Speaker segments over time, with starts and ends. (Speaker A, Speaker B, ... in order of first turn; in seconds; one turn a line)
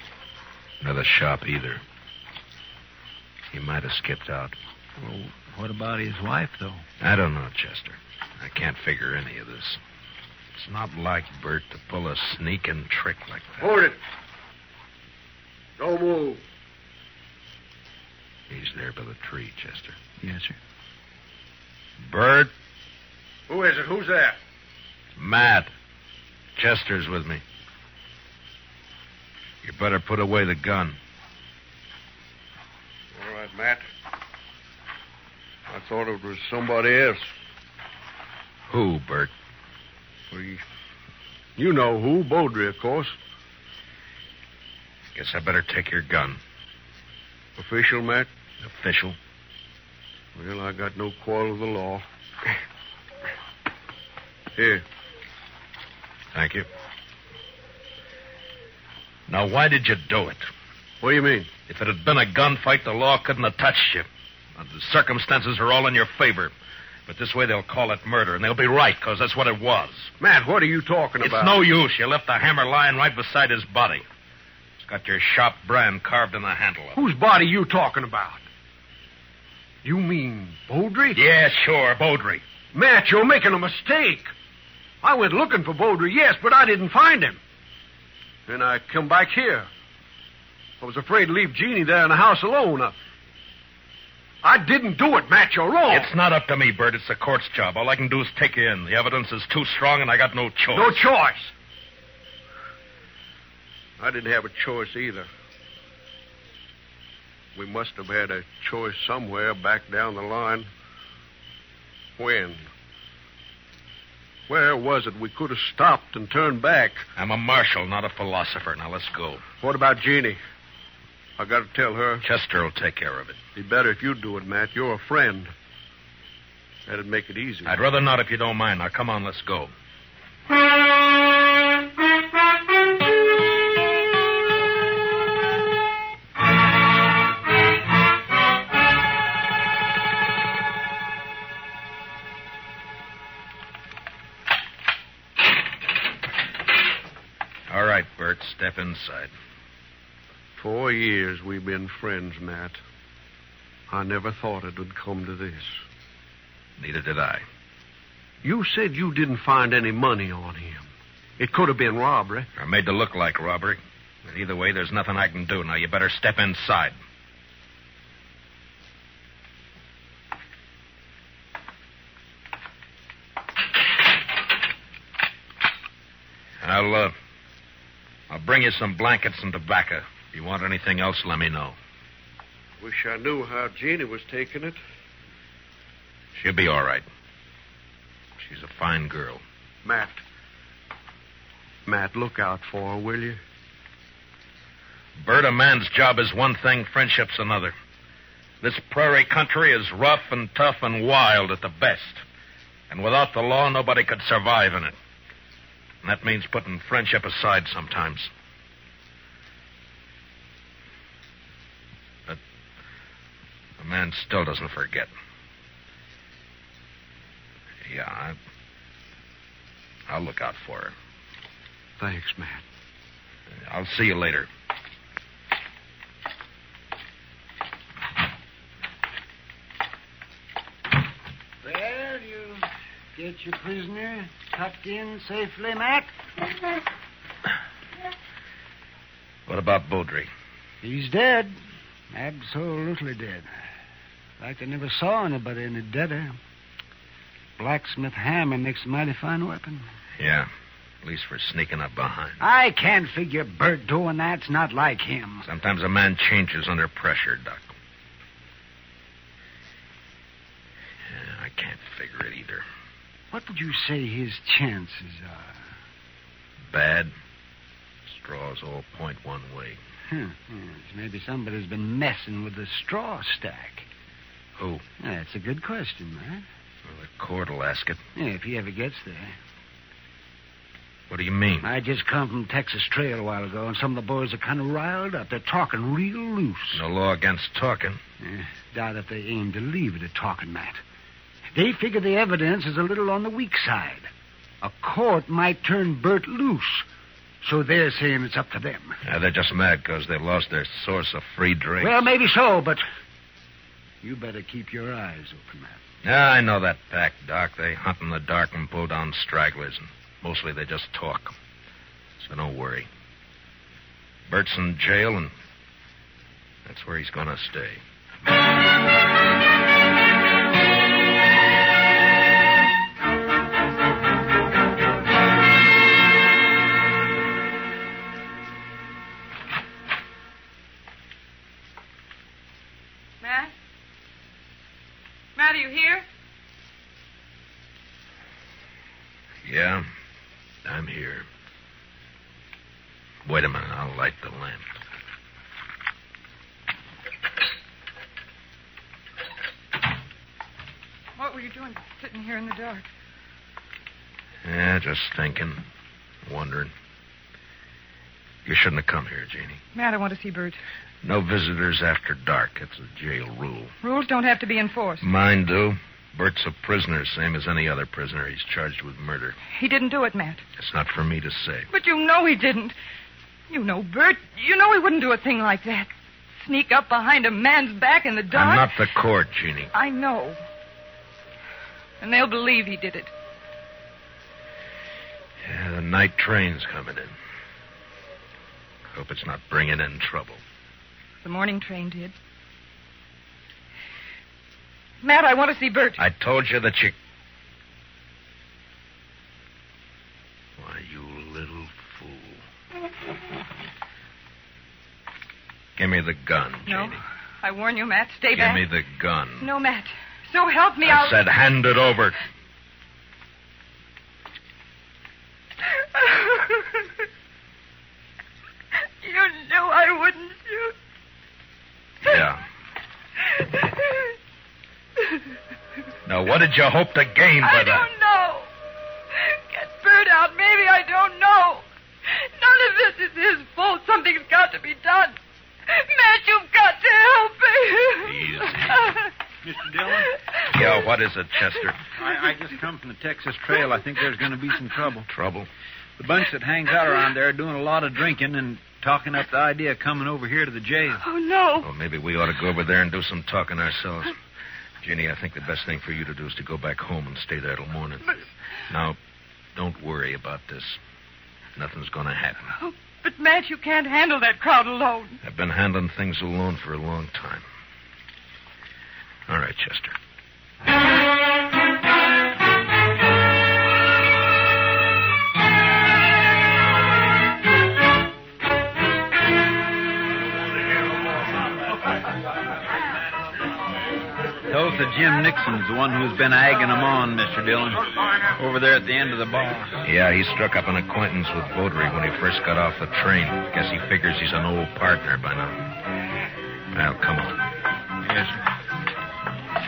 Speaker A: 0.8-1.8
Speaker A: 3.5-4.5
Speaker B: 5.0-6.8
Speaker A: 7.0-9.8
Speaker A: 10.5-13.7
Speaker C: 13.6-14.0
Speaker C: 15.8-16.4
Speaker A: 18.5-20.0
Speaker B: 20.2-20.6
Speaker A: 22.0-22.5
Speaker C: 23.5-24.4
Speaker A: 25.1-25.7
Speaker A: 26.6-27.4
Speaker A: 29.6-31.0
Speaker C: 33.1-33.8
Speaker C: 35.7-37.2
Speaker A: 38.7-39.3
Speaker C: 40.3-40.6
Speaker C: 41.6-43.1
Speaker A: 45.1-46.4
Speaker C: 47.6-48.3
Speaker A: 48.6-49.2
Speaker C: 50.3-52.0
Speaker C: 54.5-54.8
Speaker A: 56.3-56.7
Speaker A: 59.3-60.5
Speaker C: 61.0-61.5
Speaker A: 61.7-66.5
Speaker A: 67.1-70.1
Speaker C: 70.2-71.6
Speaker A: 71.2-74.0
Speaker A: 74.8-77.0
Speaker C: 77.0-78.4
Speaker C: 79.8-81.2
Speaker A: 81.1-82.4
Speaker C: 82.7-84.3
Speaker C: 85.0-87.4
Speaker C: 88.5-89.7
Speaker C: 90.8-92.9
Speaker C: 94.4-96.1
Speaker A: 95.9-101.0
Speaker C: 100.7-101.5
Speaker C: 104.0-105.3
Speaker C: 107.5-110.7
Speaker C: 112.2-112.6
Speaker C: 114.5-117.0
Speaker A: 117.2-119.4
Speaker C: 119.6-120.4
Speaker C: 121.4-122.2
Speaker A: 122.2-123.4
Speaker C: 123.5-125.5
Speaker C: 126.8-127.8
Speaker A: 127.7-129.7
Speaker A: 147.7-149.3
Speaker C: 150.6-152.8
Speaker C: 153.9-155.8
Speaker A: 156.8-157.4
Speaker C: 158.4-160.9
Speaker C: 161.4-162.5
Speaker A: 162.6-166.9
Speaker A: 176.6-177.1
Speaker A: 178.3-181.8
Speaker C: 182.8-184.8
Speaker A: 186.3-187.1
Speaker A: 188.4-189.4
Speaker C: 189.8-190.2
Speaker C: 191.8-193.4
Speaker A: 195.2-197.7
Speaker A: 198.6-202.2
Speaker A: 202.9-204.9
Speaker A: 206.0-208.3
Speaker A: 213.8-215.1
Speaker A: 217.8-218.3
Speaker A: 220.1-220.9
Speaker C: 222.0-222.6
Speaker A: 223.7-224.5
Speaker D: 231.6-236.1
Speaker A: 239.5-240.3
Speaker D: 240.8-241.6
Speaker D: 242.1-243.5
Speaker D: 244.4-246.4
Speaker D: 247.6-249.8
Speaker A: 250.2-250.5
Speaker A: 251.0-252.4
Speaker D: 252.4-255.4
Speaker A: 255.4-257.7
Speaker A: 261.1-262.6
Speaker D: 263.3-265.6
Speaker A: 266.7-267.1
Speaker A: 268.1-269.8
Speaker D: 270.1-273.9
Speaker A: 274.6-274.8
Speaker D: 275.0-276.4
Speaker A: 276.9-278.0
Speaker D: 278.1-279.4
Speaker A: 281.1-281.7
Speaker D: 281.6-286.8
Speaker A: 286.7-288.0
Speaker D: 288.2-290.8
Speaker D: 291.5-294.1
Speaker D: 294.6-296.8
Speaker D: 297.4-298.9
Speaker A: 299.0-302.1
Speaker D: 301.8-302.8
Speaker D: 304.0-305.8
Speaker A: 306.0-311.3
Speaker A: 312.2-312.9
Speaker A: 314.3-315.3
Speaker A: 316.6-317.8
Speaker E: 333.2-333.5
Speaker E: 335.4-336.0
Speaker A: 339.4-339.8
Speaker A: 340.6-341.2
Speaker A: 343.2-344.7
Speaker E: 351.2-352.9
Speaker A: 354.4-355.6
Speaker A: 356.2-356.7
Speaker A: 358.4-359.6
Speaker E: 359.7-360.6
Speaker A: 361.0-363.7
Speaker E: 363.8-365.1
Speaker A: 365.0-369.4
Speaker E: 369.5-370.4
Speaker A: 370.6-371.7
Speaker E: 371.7-372.7
Speaker E: 373.5-378.7
Speaker A: 378.3-379.7
Speaker E: 379.7-380.4
Speaker E: 382.0-383.1
Speaker A: 385.4-387.1
Speaker A: 388.9-390.4
Speaker E: 391.2-392.1
Speaker E: 395.0-396.0
Speaker A: 396.0-396.9
Speaker A: 400.6-402.4
Speaker A: 405.8-407.0
Speaker E: 406.7-408.6
Speaker A: 408.3-409.5
Speaker E: 409.4-411.2
Speaker A: 410.8-412.2
Speaker E: 415.7-416.9
Speaker E: 419.0-420.7
Speaker A: 422.0-422.4
Speaker E: 423.3-424.1
Speaker A: 426.1-427.9
Speaker E: 427.4-428.5
Speaker E: 429.1-439.1
Speaker A: 438.0-438.8
Speaker B: 439.4-440.1
Speaker A: 440.5-441.8
Speaker B: 442.0-445.1
Speaker A: 445.1-445.5
Speaker B: 446.0-451.0
Speaker E: 451.0-451.7
Speaker A: 451.6-454.1
Speaker A: 454.8-458.1
Speaker A: 458.7-459.0
Speaker A: 459.5-460.8
Speaker A: 461.6-462.5
Speaker E: 462.5-465.2
Speaker A: 465.2-467.4
Speaker A: 469.3-469.9
Speaker B: 484.5-489.7
Speaker A: 489.8-495.6
Speaker A: 496.7-497.4
Speaker B: 498.0-498.4